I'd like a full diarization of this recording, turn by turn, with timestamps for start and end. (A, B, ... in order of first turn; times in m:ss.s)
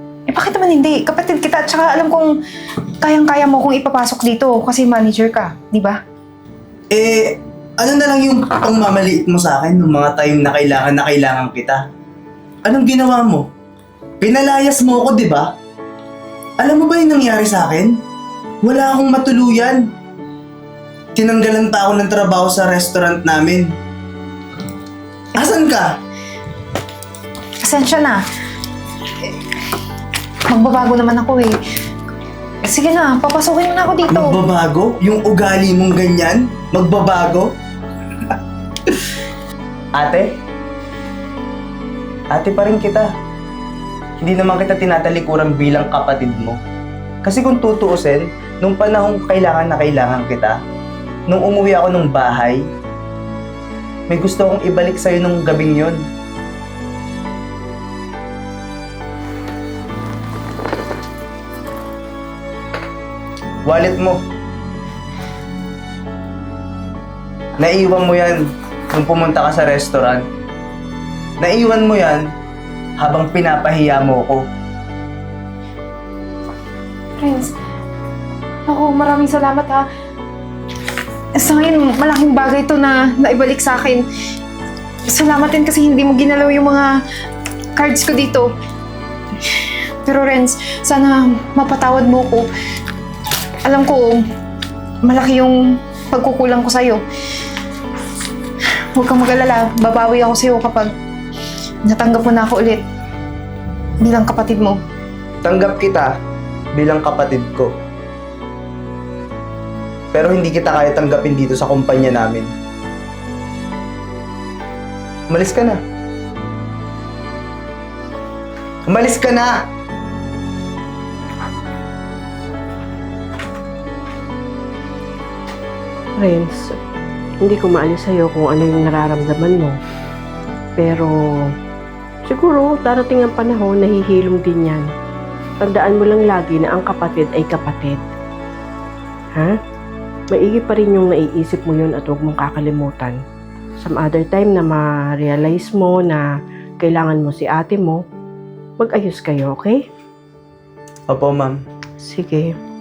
0:00.3-0:02.4 A
0:03.0-0:06.0 A
0:06.9-0:11.8 B
0:12.7-0:13.5 B
0:14.2-0:15.5 B
0:16.6-0:17.9 B
0:18.6-0:19.8 B
0:21.2-0:23.7 B
0:25.4-0:25.9 B
0:27.6-0:28.2 A
0:30.5-0:31.6 A
0:32.6-0:34.4 A
0:34.1-0:37.5 B
0:40.0-0:40.3 B
0:42.3-0:43.1 B
0:44.2-0:46.6 B
0:47.2-0:50.6 B
0:51.3-0:52.6 B
0:54.1-0:56.0 B
1:03.6-1:04.2 B
1:07.6-1:10.3 B
1:11.4-1:12.3 B
1:13.0-1:14.5 B
1:17.2-1:17.5 A
1:18.7-1:19.9 A
1:21.4-1:24.1 A
1:25.1-1:27.0 A
1:27.8-1:28.5 A
1:29.5-1:32.5 A
1:33.6-1:34.2 A
1:35.0-1:37.0 A
1:39.0-1:40.9 A
1:41.9-1:42.8 A
1:44.0-1:44.8 A
1:45.4-1:46.1 B
1:46.7-1:47.8 B
1:50.1-1:52.5 B
1:55.3-1:55.8 B
1:58.9-1:59.6 B
2:06.2-2:06.7 C
2:07.4-2:09.8 C
2:10.8-2:11.1 C
2:12.3-2:14.8 C
2:15.6-2:18.0 C
2:20.3-2:23.2 C
2:23.8-2:26.3 C
2:26.8-2:28.0 C
2:28.8-2:29.8 C
2:31.1-2:31.6 B
2:32.0-2:32.6 C